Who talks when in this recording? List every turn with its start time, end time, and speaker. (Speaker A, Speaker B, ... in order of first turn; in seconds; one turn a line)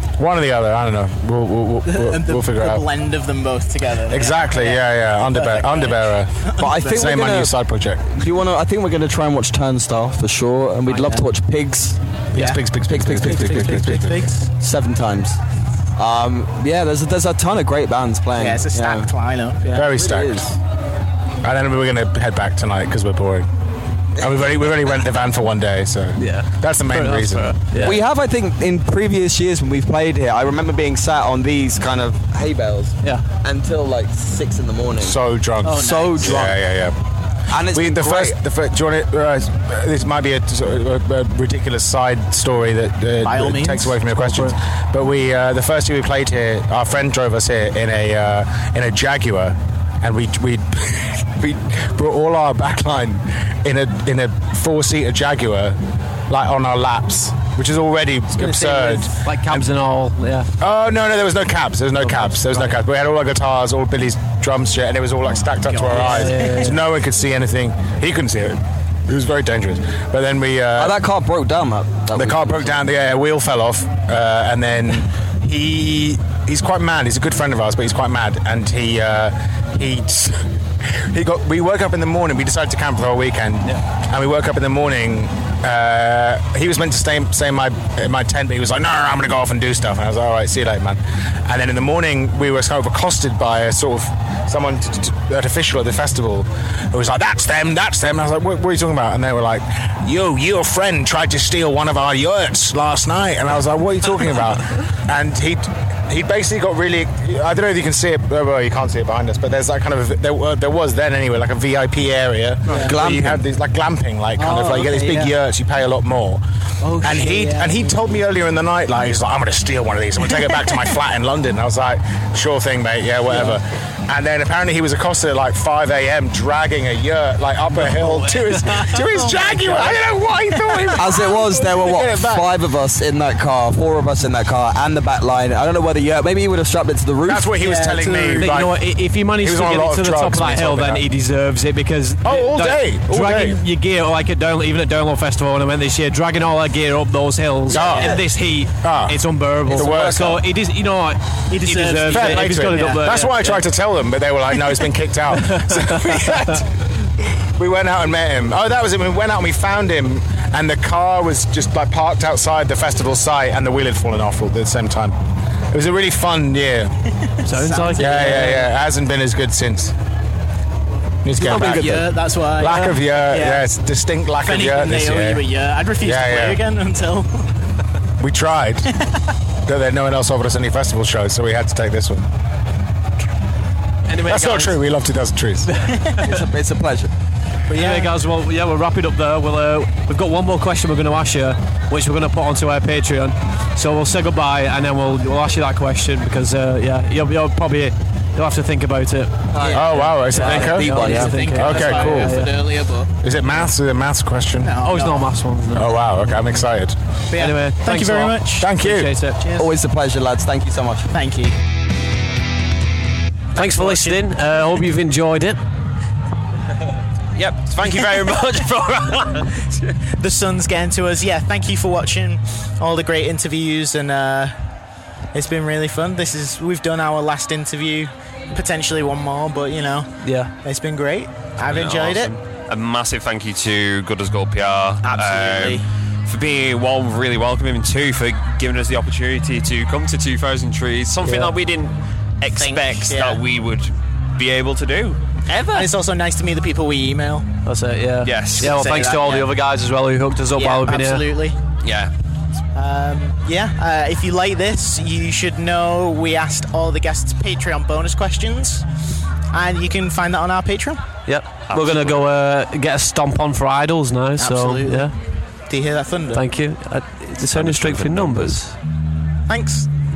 Speaker A: 0.2-2.8
Speaker B: 1.9-7.2
Speaker A: 4.1-6.3
Speaker C: 6.6-7.5
Speaker A: 6.8-8.1
Speaker C: 8.1-12.0
Speaker D: 10.9-11.2
Speaker B: 10.9-11.2
Speaker A: 12.3-14.2
Speaker B: 12.4-14.5
Speaker C: 12.8-13.8
Speaker C: 14.6-15.4
Speaker C: 16.0-19.1
Speaker B: 18.4-19.9
Speaker C: 19.7-20.5
Speaker A: 19.7-20.4
Speaker A: 21.4-23.5
Speaker A: 24.2-27.5
Speaker D: 26.2-28.0
Speaker C: 27.8-35.1
Speaker A: 35.0-36.9
Speaker B: 35.6-36.4
Speaker C: 35.8-36.5
Speaker C: 37.5-38.3
Speaker A: 37.6-55.8
Speaker B: 43.2-44.0
Speaker D: 44.2-44.5
Speaker A: 56.3-59.6
Speaker B: 58.3-59.1
Speaker D: 59.2-60.5
Speaker A: 60.6-71.0
Speaker D: 62.0-62.8
Speaker B: 65.5-66.6
Speaker D: 65.9-66.8
Speaker C: 70.8-72.8
Speaker A: 72.1-80.4
Speaker A: 81.1-116.4
Speaker B: 112.7-113.0
Speaker D: 112.7-112.9
Speaker C: 112.8-113.4
Speaker B: 114.4-115.3
Speaker B: 116.8-118.0
Speaker A: 117.0-132.5
Speaker B: 120.3-120.7
Speaker B: 123.3-123.6
Speaker D: 127.8-128.8
Speaker B: 129.0-130.0
Speaker C: 130.9-137.5
Speaker A: 137.2-138.8
Speaker B: 137.5-138.6
Speaker D: 138.3-153.6
Speaker A: 139.4-141.0
Speaker A: 142.2-143.6
Speaker B: 147.7-148.2
Speaker A: 147.7-148.2
Speaker A: 148.8-150.4
Speaker B: 151.5-153.1
Speaker A: 152.1-156.6
Speaker D: 155.4-156.6
Speaker A: 157.6-165.1
Speaker A: 165.7-166.9
Speaker D: 167.4-168.7
Speaker B: 167.5-168.6
Speaker A: 168.0-169.9
Speaker A: 171.2-172.0
Speaker B: 171.4-173.7
Speaker A: 172.6-175.4
Speaker B: 174.4-177.3
Speaker A: 176.0-176.6
Speaker A: 178.2-178.9
Speaker A: 179.7-182.2
Speaker D: 184.1-184.8
Speaker A: 184.2-185.7
Speaker D: 185.7-186.4
Speaker C: 186.2-187.1
Speaker D: 187.7-202.6
Speaker B: 187.8-188.1
Speaker C: 199.5-201.4
Speaker B: 199.6-203.1
Speaker A: 199.7-202.3
Speaker A: 203.2-204.7
Speaker B: 204.6-205.3
Speaker D: 204.8-206.0
Speaker A: 205.7-206.9
Speaker B: 207.3-208.7
Speaker D: 207.4-209.4
Speaker A: 208.6-209.1
Speaker B: 209.4-209.7
Speaker C: 209.5-211.1
Speaker B: 211.1-211.5
Speaker B: 213.6-214.2
Speaker D: 213.6-215.6
Speaker E: 217.4-219.0
Speaker B: 220.2-224.5
Speaker B: 225.3-232.3
Speaker D: 230.2-230.5
Speaker E: 231.7-245.2
Speaker B: 235.0-235.8
Speaker B: 242.5-243.4
Speaker B: 245.7-247.5
Speaker D: 247.7-251.3
Speaker E: 248.2-248.7
Speaker B: 248.6-249.5
Speaker B: 250.6-251.6
Speaker E: 251.8-252.1
Speaker B: 252.7-258.8
Speaker B: 259.5-261.0
Speaker D: 261.3-265.1
Speaker E: 261.7-262.0
Speaker B: 264.4-265.1
Speaker B: 265.7-266.5
Speaker D: 266.3-268.7
Speaker C: 267.6-268.4
Speaker E: 267.7-268.2
Speaker B: 269.5-269.9